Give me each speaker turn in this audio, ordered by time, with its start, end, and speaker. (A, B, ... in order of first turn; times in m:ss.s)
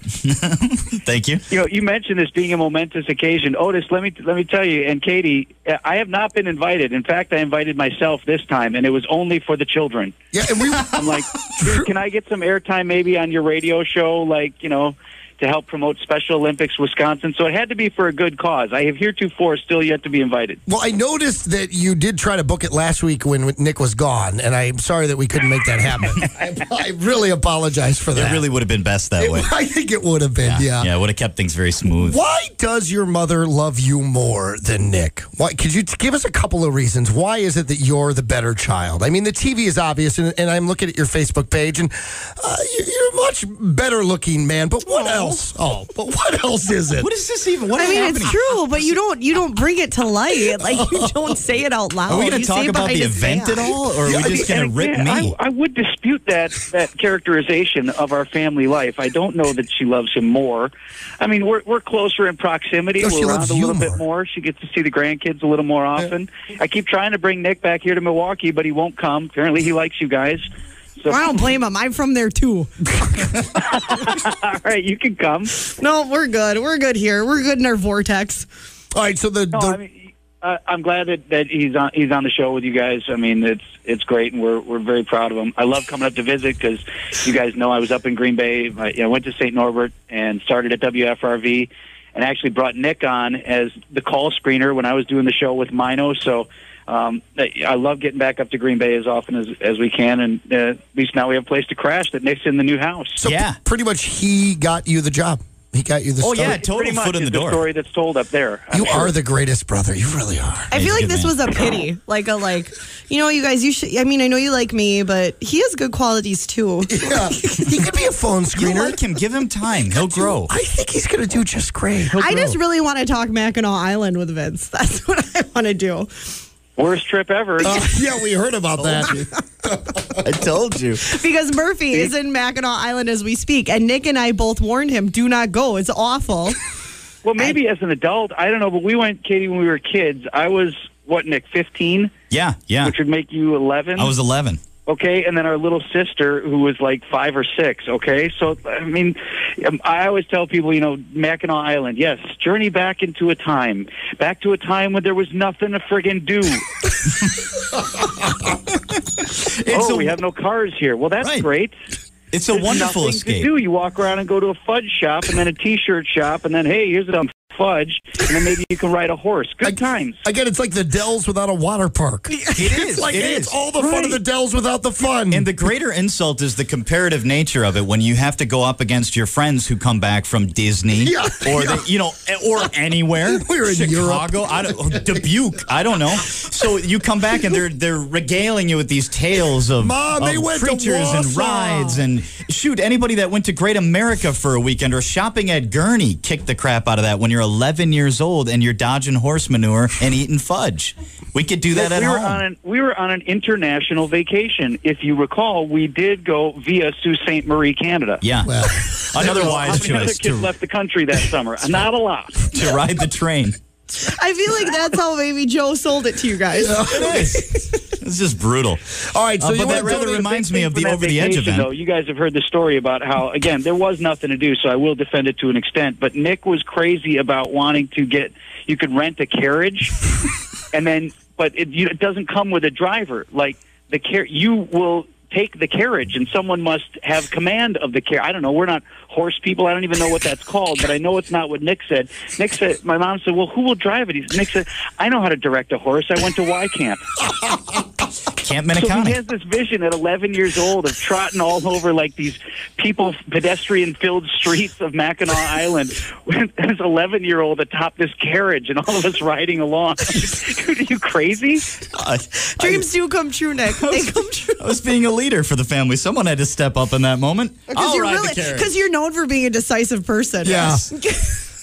0:00.2-0:01.4 A
0:01.5-0:10.1 B
0:10.3-0:11.9 C
0:10.9-0:20.6 B
0:20.7-0:28.5 C
0:28.1-0:29.5 A
0:29.2-0:30.9 C
0:30.4-0:32.2 A
0:32.0-0:47.1 C
0:44.9-0:45.4 D
0:47.0-0:48.6 A
0:47.7-0:53.7 D
0:50.7-0:51.0 C
0:52.1-0:55.3 A
0:54.1-1:11.4 B
1:03.0-1:04.0 C
1:11.1-1:13.4 D
1:13.4-1:15.6 B
1:15.6-1:18.5 D
1:18.9-1:19.8 C
1:19.5-1:43.2 B
1:43.2-1:46.6 C
1:43.2-1:43.6 A
1:46.2-1:47.6 A
1:46.4-1:49.1 B
1:48.7-1:50.7 C
1:50.7-1:57.8 D
1:50.7-1:51.4 A
1:56.9-1:59.0 C
1:58.5-2:00.5 A
1:59.9-2:02.6 C
2:02.1-2:06.3 D
2:06.8-2:07.8 B
2:07.6-2:10.2 C
2:08.8-2:09.3 A
2:10.2-2:11.1 A
2:11.1-2:16.6 D
2:17.2-2:22.1 B
2:22.3-2:22.9 A
2:22.8-2:24.1 B
2:24.0-2:24.6 A
2:24.8-2:36.7 B
2:37.2-2:37.5 A
2:38.7-2:40.1 A
2:39.7-2:41.7 B
2:41.2-2:41.5 A
2:42.3-2:43.5 A
2:42.5-2:50.2 B
2:49.6-2:55.5 C
2:52.6-2:53.6 A
2:53.8-2:54.1 B
2:55.3-3:22.4 A
3:01.0-3:01.9 C
3:03.2-3:05.2 C
3:09.8-3:12.0 C
3:21.7-3:28.2 B
3:28.2-3:30.5 A
3:28.4-3:30.0 C
3:29.2-3:32.5 B
3:32.5-3:33.6 A
3:33.9-3:37.6 D
3:36.6-3:37.3 C
3:36.8-3:41.7 A
3:39.1-3:40.3 C
3:39.6-3:50.0 B
3:50.7-4:07.1 B
4:08.3-4:09.2 A
4:08.7-4:21.7 B
4:21.9-4:22.9 A
4:22.5-4:24.7 D
4:23.6-4:28.7 A
4:27.7-4:31.4 D
4:30.4-4:30.8 C